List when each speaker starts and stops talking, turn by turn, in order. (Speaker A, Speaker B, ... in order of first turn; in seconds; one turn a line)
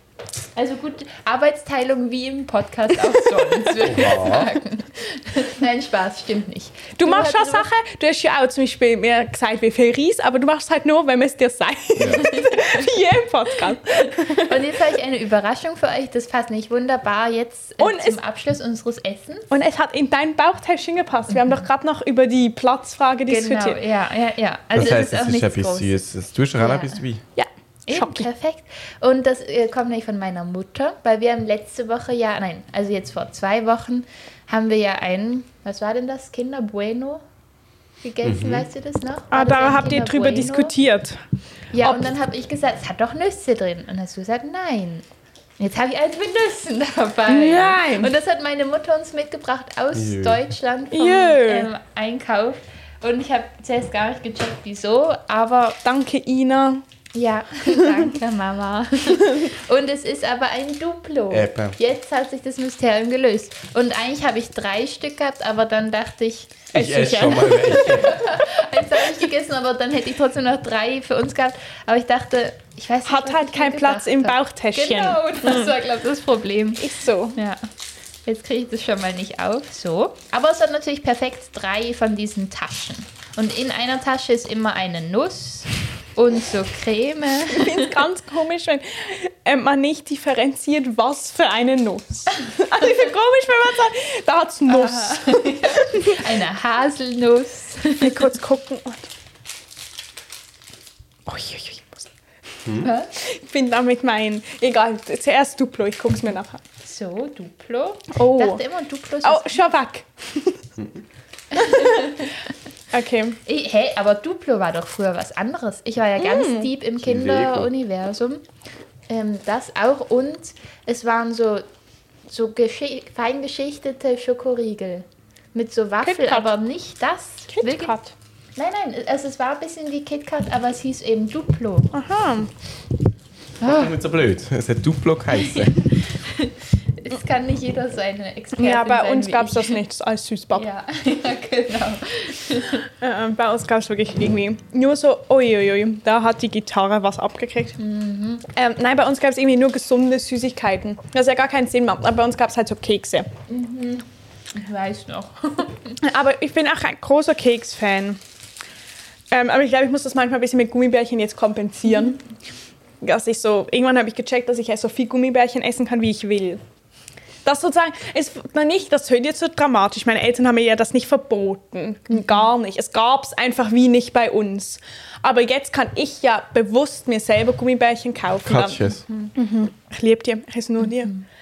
Speaker A: 0.6-7.7
Speaker B: 3.8-4.5
Speaker C: 7.0-14.7
Speaker B: 12.0-12.2
Speaker A: 12.0-12.9
Speaker A: 13.7-19.5
Speaker C: 17.8-18.2
Speaker C: 19.5-23.8
Speaker A: 21.3-21.6
Speaker A: 23.3-26.0
Speaker B: 24.8-27.2
Speaker A: 26.6-27.0
Speaker C: 27.4-28.3
Speaker A: 27.9-37.2
Speaker A: 38.0-40.7
Speaker B: 38.2-38.7
Speaker C: 39.3-41.2
Speaker A: 41.7-45.0
Speaker C: 41.8-42.1
Speaker A: 45.6-55.8
Speaker C: 47.3-48.1
Speaker B: 50.0-50.4
Speaker C: 50.9-51.7
Speaker C: 55.8-56.8
Speaker A: 57.1-77.7
Speaker C: 57.8-58.1
Speaker B: 61.3-61.8
Speaker B: 66.7-68.3
Speaker C: 66.8-67.9
Speaker C: 73.1-75.7
Speaker C: 76.8-77.4
Speaker A: 78.3-88.0
Speaker C: 87.5-96.2
Speaker A: 94.7-98.3
Speaker C: 98.0-99.1
Speaker C: 101.3-102.1
Speaker A: 102.8-103.1
Speaker C: 103.2-106.6
Speaker A: 106.8-109.6
Speaker C: 108.2-108.6
Speaker C: 109.2-110.6
Speaker A: 111.5-112.4
Speaker C: 111.6-112.2
Speaker C: 112.9-113.4
Speaker A: 113.5-118.5
Speaker C: 116.2-116.7
Speaker B: 117.0-117.7
Speaker A: 119.1-121.7
Speaker A: 122.3-128.0
Speaker C: 126.0-126.5
Speaker C: 127.5-128.1
Speaker A: 128.6-131.9
Speaker C: 131.9-132.5
Speaker A: 133.6-133.9
Speaker B: 133.6-135.8
Speaker A: 135.3-139.8
Speaker C: 138.6-140.7
Speaker A: 140.5-142.9
Speaker C: 142.9-147.8
Speaker A: 147.8-148.4
Speaker C: 148.5-153.3
Speaker A: 153.5-156.0
Speaker C: 156.0-158.2
Speaker C: 159.3-162.2
Speaker C: 163.0-166.6
Speaker C: 167.4-181.1
Speaker A: 172.2-172.4
Speaker B: 178.4-179.0
Speaker A: 179.1-179.3
Speaker A: 180.8-181.2